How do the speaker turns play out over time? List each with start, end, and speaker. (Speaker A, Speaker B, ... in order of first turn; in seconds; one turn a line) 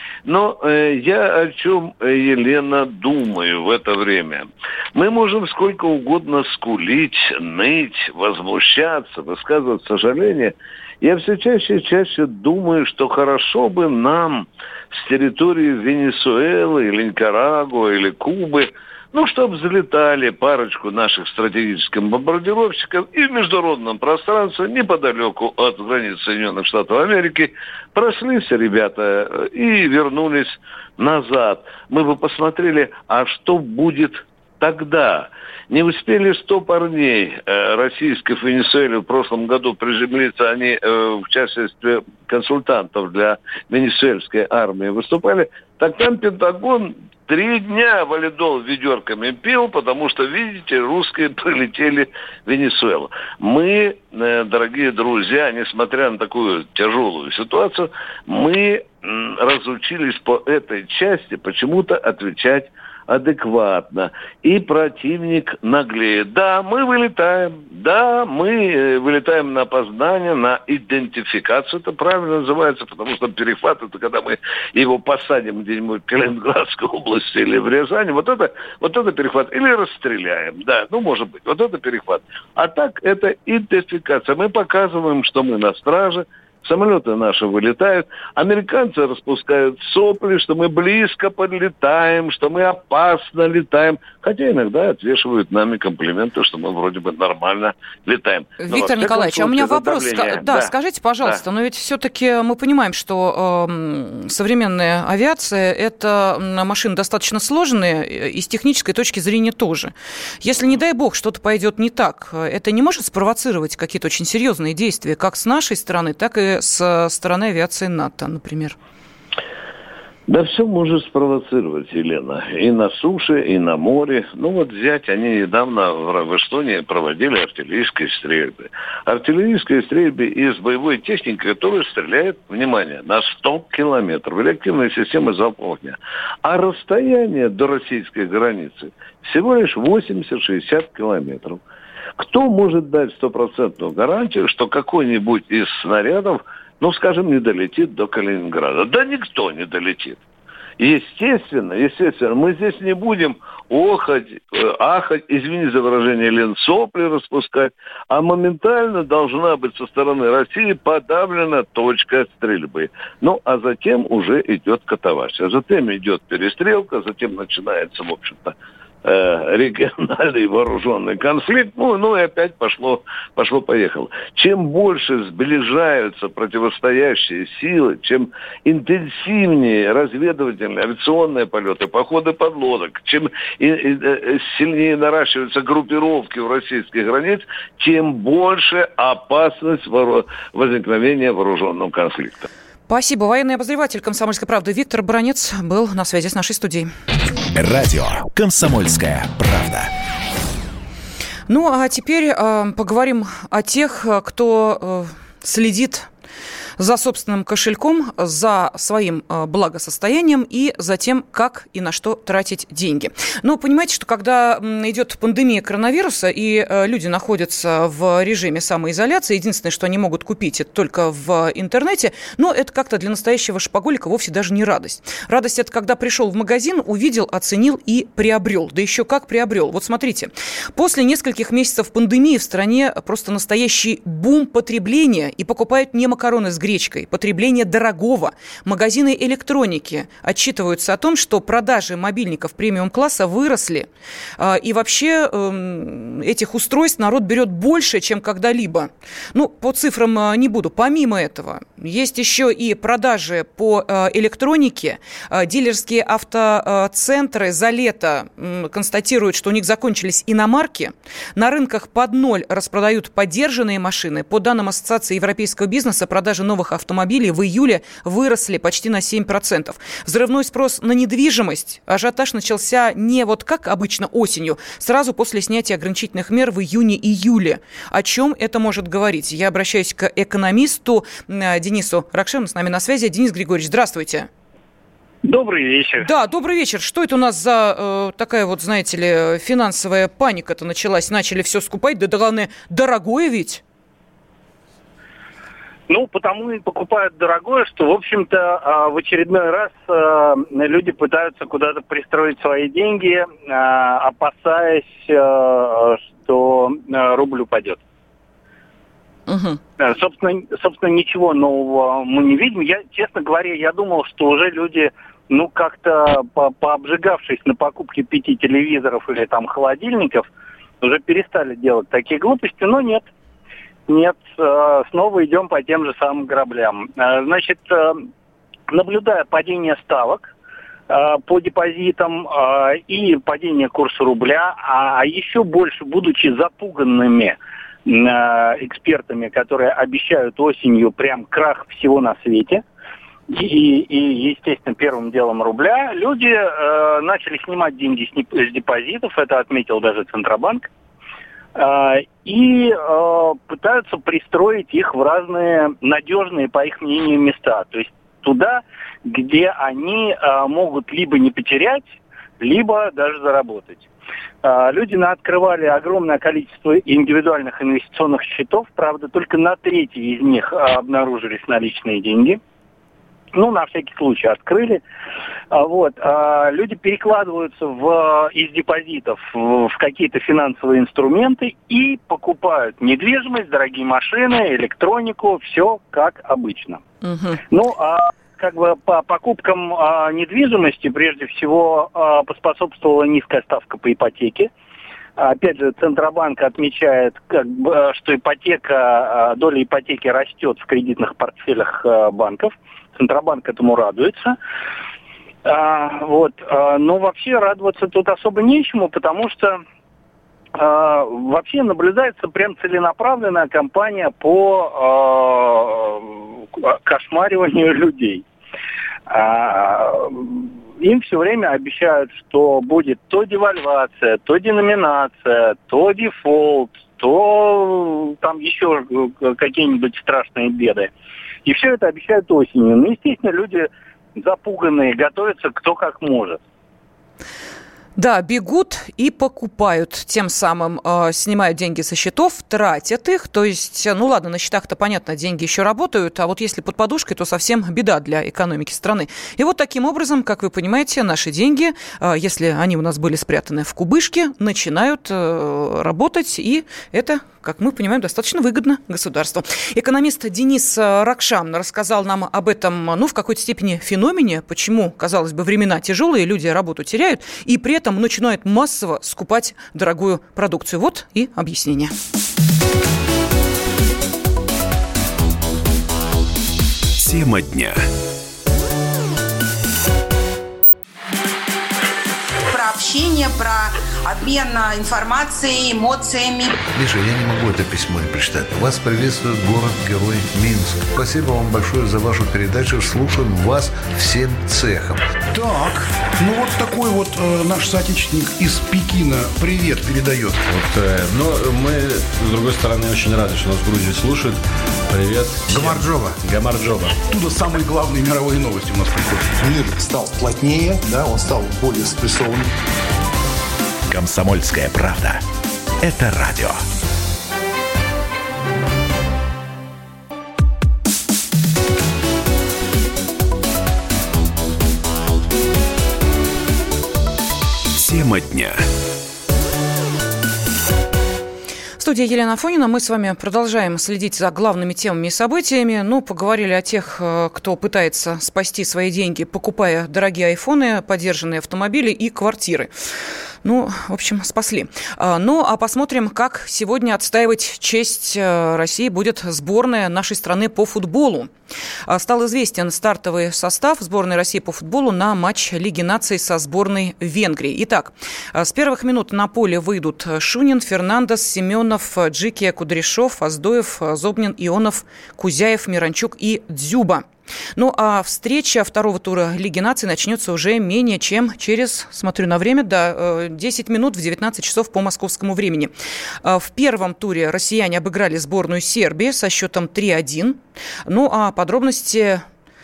Speaker A: 0.2-100.7
Speaker B: 98.6-118.8
Speaker A: 120.3-141.6
Speaker A: 142.2-150.2
Speaker A: 150.8-192.5
Speaker B: 192.9-196.9
Speaker C: 197.5-199.9
Speaker B: 201.5-206.1
Speaker B: 206.8-243.9
Speaker B: 244.4-284.3
Speaker D: 285.2-286.1
Speaker B: 286.0-293.6
Speaker D: 295.9-307.8
Speaker B: 309.3-309.6
Speaker D: 309.8-320.3
Speaker D: 320.8-323.1
Speaker D: 323.9-328.1
Speaker D: 328.7-330.3
Speaker D: 330.9-342.6
Speaker D: 343.3-350.7
Speaker D: 351.6-361.9
Speaker D: 362.4-363.9
Speaker D: 364.4-372.4
Speaker D: 373.3-374.8
Speaker D: 375.5-386.8
Speaker B: 387.0-387.4
Speaker D: 387.5-394.5
Speaker D: 395.2-404.4
Speaker D: 405.4-409.6
Speaker D: 410.6-418.2
Speaker D: 419.1-430.9
Speaker D: 431.4-436.4
Speaker B: 438.0-471.9
Speaker C: 477.0-477.9
Speaker E: 482.5-486.6
Speaker F: 486.7-495.1
Speaker G: 495.3-500.4
Speaker H: 500.5-507.0
Speaker G: 505.6-506.2
Speaker G: 507.1-509.8
Speaker I: 509.8-512.5
Speaker C: 513.9-515.2
Speaker C: 515.8-516.6
Speaker C: 527.7-528.6
Speaker B: 531.8-542.7
Speaker B: 543.4-551.3
Speaker B: 551.9-567.0
Speaker B: 567.6-575.7
Speaker B: 576.2-582.2